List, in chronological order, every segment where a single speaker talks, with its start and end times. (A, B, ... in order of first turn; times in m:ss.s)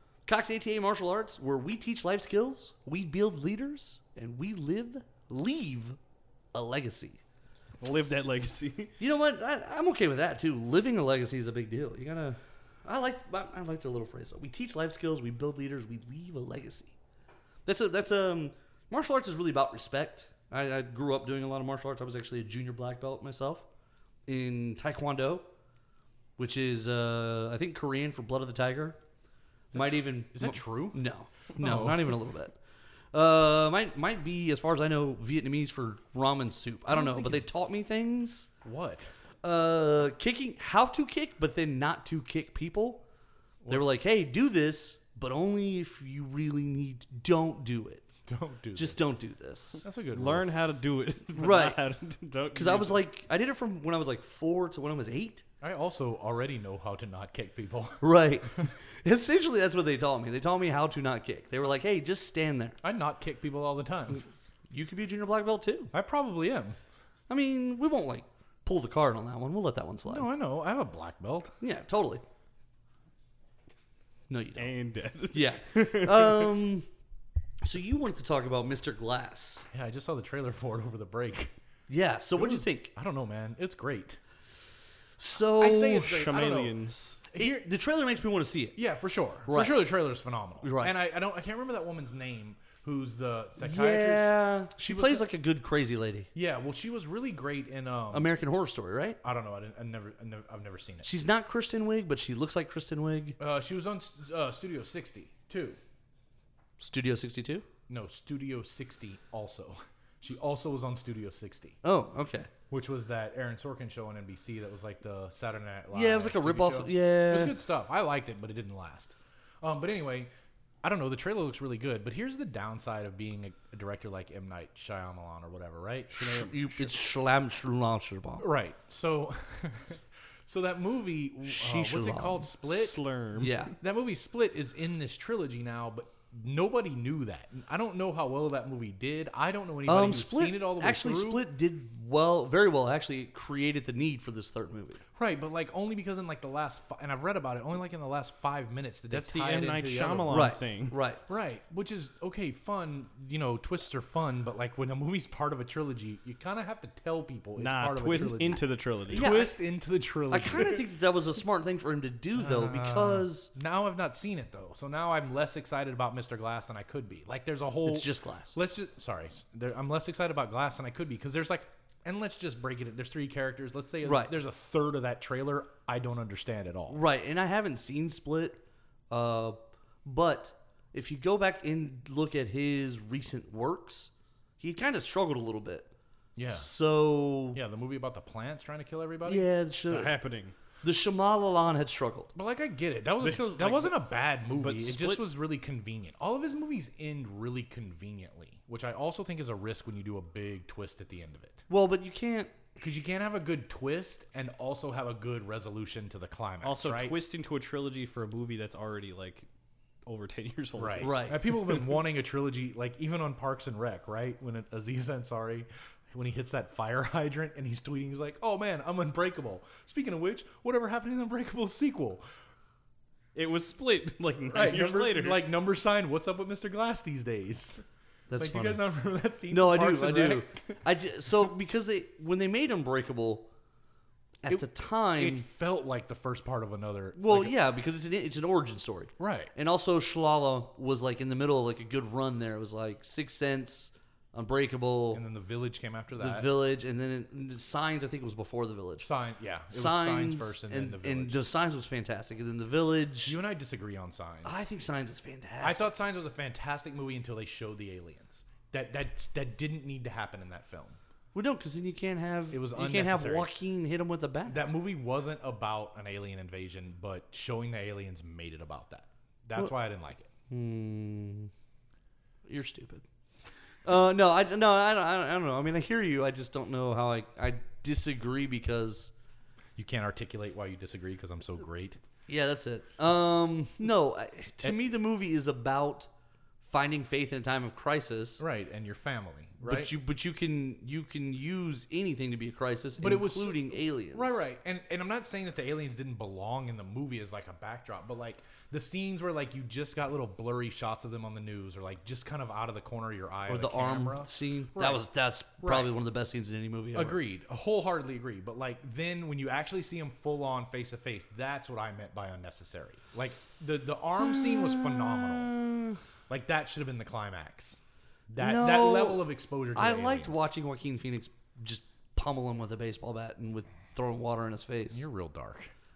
0:00.3-0:06.0 A
0:06.5-0:07.2 A
0:07.8-0:08.9 B
0:09.0-0:16.9 A
0:17.7-0:23.6 A
0:24.3-0:25.5 A
0:26.4-0:29.0 A
0:29.7-0:31.0 C
0:29.7-0:32.6 A
0:31.6-0:32.2 C
0:33.1-0:38.5 A
0:36.9-0:37.5 C
0:38.6-0:39.1 C
0:39.4-0:43.0 A
0:43.7-0:48.1 A
0:48.3-0:49.1 C
0:48.8-0:49.8 A
0:49.8-0:50.5 C
0:50.1-0:53.0 B
0:51.4-0:51.8 A
0:52.5-0:55.4 A
0:55.6-0:58.0 C
0:58.0-1:02.8 A
1:02.8-1:04.2 C
1:04.7-1:05.9 A
1:05.9-1:06.8 C
1:07.3-1:10.3 A
1:10.1-1:11.5 C
1:11.6-1:12.2 A
1:14.3-1:14.8 A
1:14.6-1:16.6 B
1:15.3-1:16.9 A
1:17.6-1:19.7 A
1:19.7-1:21.5 C
1:21.9-1:22.9 A
1:22.4-1:24.2 C
1:25.2-1:26.2 A
1:25.6-1:26.8 C
1:26.0-1:27.2 B
1:27.3-1:27.6 C
1:27.3-1:28.8 A
1:28.8-1:35.3 C
1:29.5-1:29.8 A
1:30.6-1:30.9 A
1:33.6-1:36.3 A
1:36.4-1:38.3 C
1:38.1-1:39.2 A
1:39.2-1:41.1 C
1:41.0-1:43.4 A
1:43.4-1:45.8 C
1:46.8-1:47.7 A
1:47.9-1:51.8 C
1:51.8-1:52.5 A
1:52.7-2:00.3 C
1:55.9-1:57.6 A
2:00.8-2:06.9 C
2:06.2-2:08.5 A
2:06.2-2:06.5 B
2:08.4-2:13.0 C
2:11.4-2:12.5 A
2:12.6-2:13.7 B
2:13.4-2:13.7 A
2:13.8-2:21.5 C
2:19.9-2:25.0 A
2:25.2-2:30.7 C
2:29.1-2:31.0 B
2:30.3-2:31.2 A
2:31.3-2:40.8 C
2:37.6-2:39.3 B
2:39.1-2:39.6 A
2:40.3-2:43.5 A
2:42.4-2:57.0 C
2:47.8-2:48.6 A
2:54.0-2:54.3 A
2:56.9-3:05.9 A
3:06.4-3:06.7 C
3:06.5-3:07.6 A
3:07.5-3:09.5 C
3:09.2-3:10.1 A
3:09.9-3:10.6 B
3:10.8-3:12.3 A
3:12.4-3:21.6 C
3:13.2-3:15.2 B
3:21.7-3:22.6 A
3:22.8-3:27.2 C
3:26.6-3:29.5 B
3:30.1-3:31.9 B
3:30.8-3:42.2 C
3:31.0-3:31.4 A
3:43.4-3:45.5 B
3:44.5-3:47.8 C
3:48.3-3:48.8 A
3:48.4-3:50.7 C
3:49.5-3:53.5 A
3:54.4-3:55.5 A
3:54.5-3:57.6 C
3:57.2-4:05.2 A
3:59.2-3:59.5 C
4:05.1-4:06.5 C
4:06.2-4:09.1 A
4:09.0-4:11.4 C
4:09.7-4:13.4 A
4:13.3-4:14.6 C
4:14.4-4:15.9 A
4:15.6-4:21.0 C
4:21.3-4:24.6 A
4:22.5-4:23.5 C
4:24.5-4:30.3 C
4:30.5-4:31.5 A
4:32.5-4:33.0 A
4:33.8-4:39.1 A
4:39.8-4:42.0 C
4:42.3-4:46.1 A
4:46.6-4:48.4 A
4:48.4-4:49.9 C
4:49.6-4:54.5 A
4:53.0-5:05.1 C
5:03.5-5:07.2 A
5:05.6-5:05.9 C
5:06.9-5:15.5 C
5:14.2-5:16.0 A
5:16.3-5:17.8 C
5:18.3-5:20.5 C
5:18.4-5:25.0 A
5:24.9-5:25.7 C